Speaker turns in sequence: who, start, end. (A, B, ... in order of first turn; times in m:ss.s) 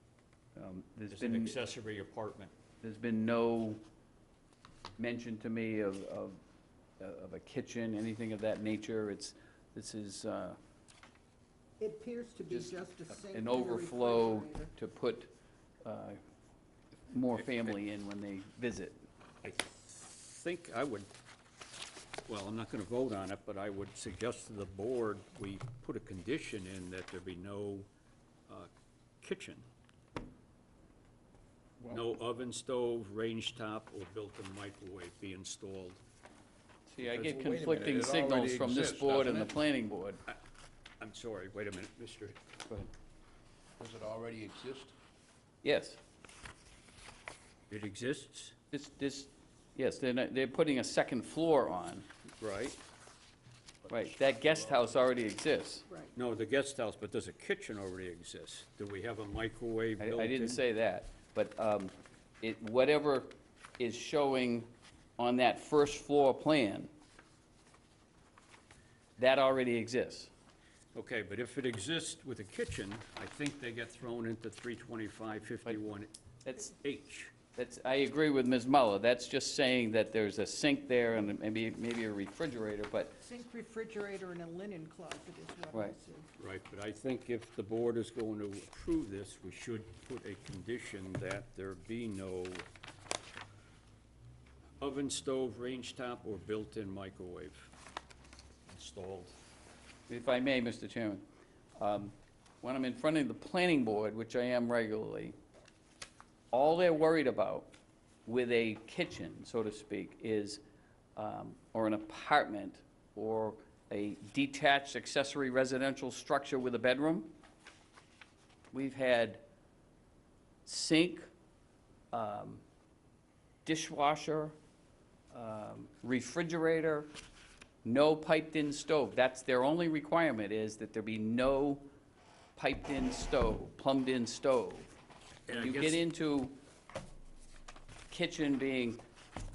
0:00.6-0:01.6 A
0:01.1-0:02.5 B
0:02.8-0:03.8 A
0:05.0-0:06.4 A
0:07.0-0:10.6 A
0:11.8-0:14.7 C
0:12.5-0:15.3 A
0:15.8-0:16.2 A
0:17.1-0:19.0 A
0:17.3-0:17.8 B
0:19.4-0:21.1 B
0:22.3-0:27.9 B
0:29.2-0:29.6 B
0:31.9-0:36.0 B
0:36.9-0:40.2 A
0:37.0-0:39.6 D
0:41.0-0:42.4 B
0:43.8-0:44.9 D
0:45.6-0:46.0 A
0:47.7-0:48.5 B
0:48.7-0:52.1 A
0:52.4-0:52.8 B
0:53.8-0:54.9 D
0:53.9-0:55.8 A
0:55.9-0:56.1 C
0:56.1-1:00.6 B
1:00.0-1:06.9 A
1:09.2-1:10.3 A
1:10.9-1:17.3 B
1:16.4-1:16.7 A
1:17.6-1:23.2 A
1:23.2-1:26.3 C
1:26.4-1:32.6 B
1:34.8-1:37.7 B
1:38.7-1:39.4 B
1:40.1-1:41.2 A
1:41.8-1:45.4 A
1:46.5-1:47.7 A
1:48.2-1:50.6 A
1:51.2-1:57.3 A
1:58.7-1:59.4 A
2:00.6-2:01.2 A
2:02.1-2:02.6 A
2:03.6-2:04.6 A
2:05.3-2:07.1 A
2:07.8-2:11.8 A
2:12.6-2:14.9 A
2:15.5-2:16.0 B
2:15.5-2:16.6 A
2:18.1-2:19.0 A